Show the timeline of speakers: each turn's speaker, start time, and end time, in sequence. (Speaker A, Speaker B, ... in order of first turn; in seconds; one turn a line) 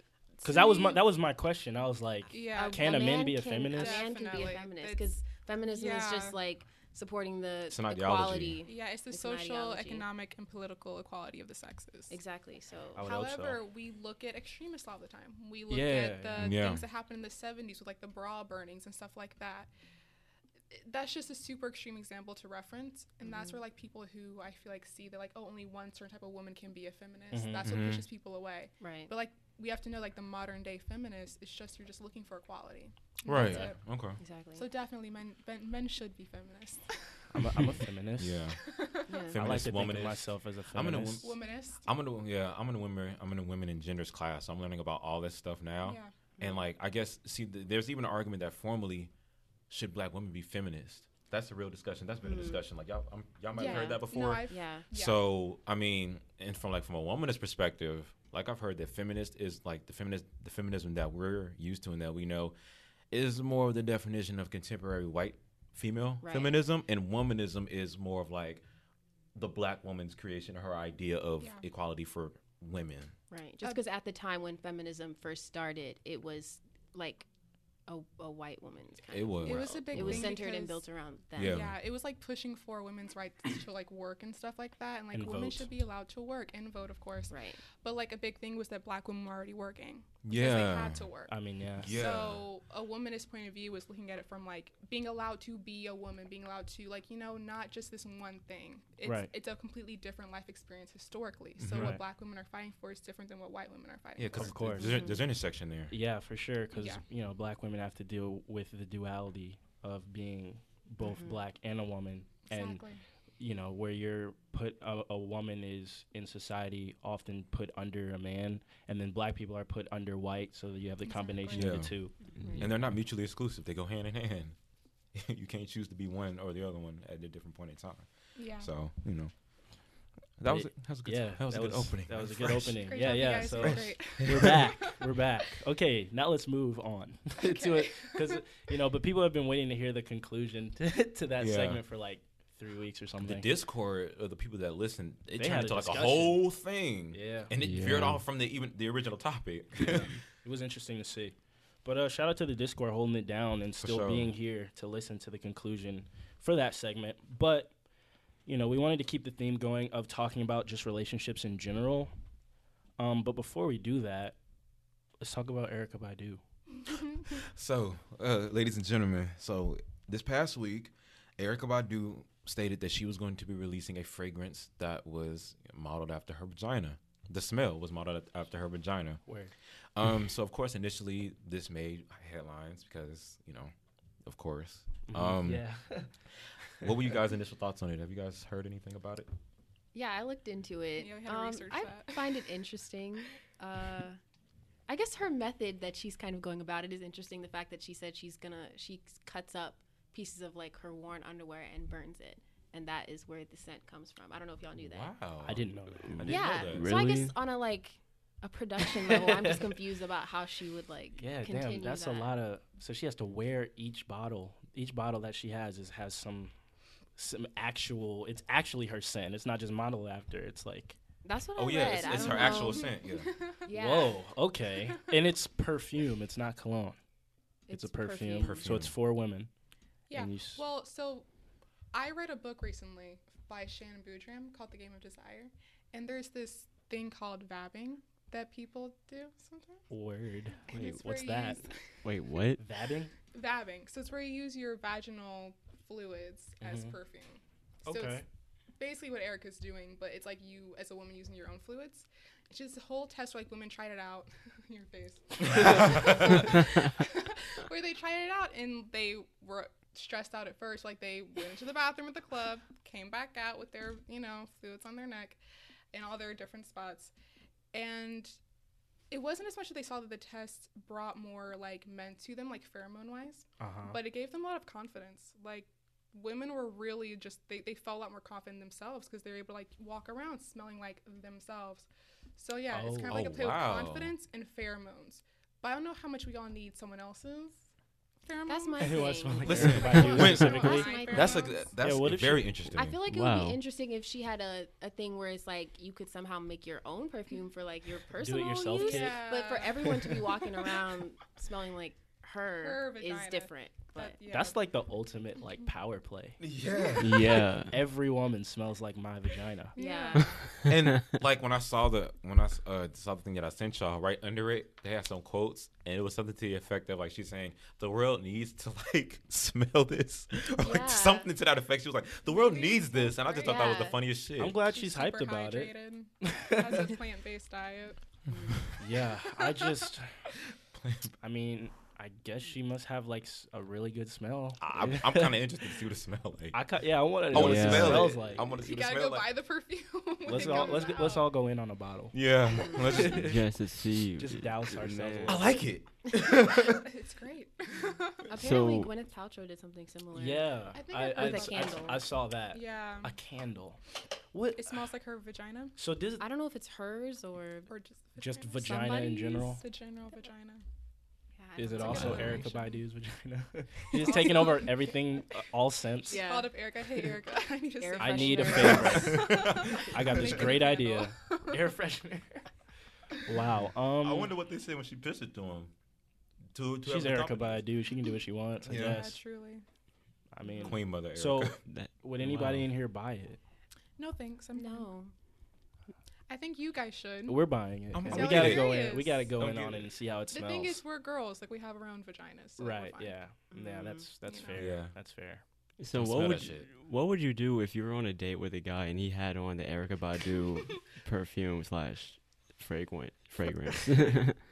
Speaker A: 0.4-1.0
Speaker B: 0.4-4.0
Speaker A: 2.3-5.1
Speaker C: 2.5-10.0
Speaker A: 5.7-6.4
Speaker D: 7.7-8.6
Speaker A: 8.7-12.1
Speaker C: 12.1-13.1
Speaker B: 12.9-13.6
Speaker A: 13.0-19.7
Speaker B: 15.7-16.5
Speaker D: 16.4-16.8
Speaker A: 20.7-33.8
Speaker C: 23.2-23.6
Speaker B: 27.3-27.6
Speaker D: 27.6-28.0
Speaker C: 28.8-29.1
Speaker D: 33.2-34.2
Speaker C: 34.2-34.6
Speaker A: 34.6-37.8
Speaker B: 37.3-38.5
Speaker D: 38.2-38.6
Speaker A: 38.6-39.3
Speaker C: 39.1-39.4
Speaker D: 39.3-41.3
Speaker B: 39.3-41.2
Speaker A: 41.2-41.9
Speaker D: 41.8-49.1
Speaker A: 45.8-46.1
Speaker D: 49.7-62.5
Speaker C: 52.2-52.6
Speaker A: 53.5-55.2
Speaker C: 53.6-54.9
Speaker D: 63.1-68.6
Speaker C: 66.2-66.6
Speaker D: 69.3-73.1
Speaker C: 73.3-77.3
Speaker C: 77.9-81.7
Speaker D: 79.1-80.3
Speaker A: 79.4-80.8
Speaker D: 81.3-81.8
Speaker A: 81.3-91.3
Speaker B: 85.1-85.7
Speaker C: 87.3-87.6
Speaker D: 90.2-91.1
Speaker B: 91.3-92.0
Speaker D: 91.8-92.5
Speaker A: 91.8-104.9
Speaker B: 99.0-99.3
Speaker D: 101.6-101.9
Speaker B: 101.7-102.0
Speaker D: 104.2-105.9
Speaker B: 104.3-104.9
Speaker C: 104.8-105.2
Speaker B: 105.9-112.8
Speaker A: 106.7-107.0
Speaker C: 111.0-111.4
Speaker A: 112.5-113.0
Speaker B: 113.4-122.1
Speaker A: 121.0-121.8
Speaker D: 121.5-121.9
Speaker C: 122.4-122.7
Speaker D: 122.6-124.5
Speaker D: 125.1-129.3
Speaker A: 128.4-128.7
Speaker D: 130.4-134.6
Speaker B: 130.5-143.5
Speaker A: 132.5-134.9
Speaker A: 137.4-138.4
Speaker D: 141.4-141.8
Speaker D: 143.2-150.1
Speaker B: 145.4-146.4
Speaker B: 147.1-147.5
Speaker E: 147.6-148.2
Speaker B: 149.8-157.7
Speaker D: 153.8-154.3
Speaker B: 158.5-162.1
Speaker B: 163.0-164.4
Speaker B: 165.2-166.4
Speaker D: 167.4-179.2
Speaker B: 179.2-179.5
Speaker D: 179.9-183.7
Speaker D: 184.2-185.6
Speaker B: 185.1-186.1
Speaker D: 186.8-189.3
Speaker C: 189.9-194.2
Speaker A: 191.0-192.5
Speaker C: 194.9-205.1
Speaker D: 204.8-206.9
Speaker B: 205.4-206.4
Speaker E: 206.1-207.3
Speaker C: 206.2-212.3
Speaker B: 208.8-209.7
Speaker B: 211.2-216.5
Speaker B: 217.2-221.0
Speaker C: 221.2-224.2
Speaker D: 221.6-223.3
Speaker A: 221.9-223.7
Speaker B: 223.7-227.0
Speaker C: 227.7-228.6
Speaker B: 227.7-229.5
Speaker D: 228.4-228.9
Speaker A: 230.1-231.3
Speaker B: 230.1-230.6
Speaker A: 231.9-239.8
Speaker B: 239.9-241.6
Speaker A: 240.7-241.8
Speaker E: 242.0-242.6
Speaker B: 242.6-243.1
Speaker A: 243.3-248.2
Speaker B: 246.6-246.9
Speaker B: 247.8-248.2
Speaker A: 248.8-265.4
Speaker D: 255.6-256.2
Speaker A: 265.9-267.1
Speaker A: 267.7-268.4
Speaker A: 269.1-287.6
Speaker B: 273.6-274.0
Speaker B: 282.7-283.2
Speaker D: 283.1-284.1
Speaker A: 288.2-291.8
Speaker C: 288.5-291.6
Speaker B: 288.8-290.9
Speaker D: 289.5-293.0
Speaker B: 291.8-292.6
Speaker C: 292.7-304.2
Speaker E: 293.0-293.6
Speaker B: 298.1-299.3
Speaker A: 298.6-300.1
Speaker A: 302.6-304.6
Speaker B: 304.3-306.4
Speaker D: 306.4-307.3
Speaker E: 307.0-307.8
Speaker B: 307.6-309.8
Speaker A: 309.8-310.4
Speaker C: 309.8-310.5
Speaker D: 310.6-324.6
Speaker C: 320.6-321.3
Speaker A: 322.3-323.9
Speaker C: 323.4-324.0
Speaker B: 324.4-326.9
Speaker A: 324.6-328.0
Speaker C: 328.3-328.7
Speaker B: 328.8-330.2
Speaker D: 330.7-331.1
Speaker B: 331.2-335.4
Speaker D: 334.6-336.6
Speaker B: 336.5-338.5
Speaker D: 337.3-339.3
Speaker E: 337.3-338.1
Speaker A: 338.3-341.3
Speaker B: 340.2-342.2
Speaker C: 340.3-341.1
Speaker D: 342.1-343.4
Speaker C: 342.6-343.0
Speaker B: 342.8-343.4
Speaker E: 343.0-345.6
Speaker B: 344.2-345.6
Speaker D: 345.2-346.9
Speaker A: 346.6-348.3
Speaker C: 348.3-352.0
Speaker E: 348.3-348.9
Speaker B: 350.1-353.8
Speaker A: 350.8-353.1
Speaker B: 354.3-354.8
Speaker A: 354.6-355.8
Speaker B: 355.8-356.2
Speaker C: 356.2-357.7
Speaker A: 357.7-360.6
Speaker B: 358.2-359.6
Speaker C: 361.4-362.6
Speaker B: 361.6-366.2
Speaker A: 361.8-362.7
Speaker A: 363.9-364.8
Speaker C: 364.1-364.4
Speaker A: 366.1-371.6
Speaker C: 366.1-366.5
Speaker C: 367.8-369.3
Speaker B: 368.0-372.4
Speaker D: 368.6-370.2
Speaker B: 373.2-374.3
Speaker D: 374.0-375.7
Speaker D: 376.5-377.6
Speaker B: 376.9-379.2
Speaker D: 378.6-379.0
Speaker A: 378.7-379.6
Speaker B: 380.3-383.4
Speaker D: 380.6-381.6
Speaker E: 381.6-382.6
Speaker A: 384.0-384.9
Speaker C: 384.6-385.1
Speaker A: 386.3-387.4
Speaker B: 387.3-390.8
Speaker D: 387.9-388.8
Speaker A: 388.1-389.3
Speaker D: 389.4-389.9
Speaker A: 390.3-393.1
Speaker B: 392.6-395.4
Speaker C: 393.5-394.1
Speaker A: 394.2-394.6
Speaker D: 394.6-394.9
Speaker E: 395.8-404.4
Speaker D: 395.9-396.7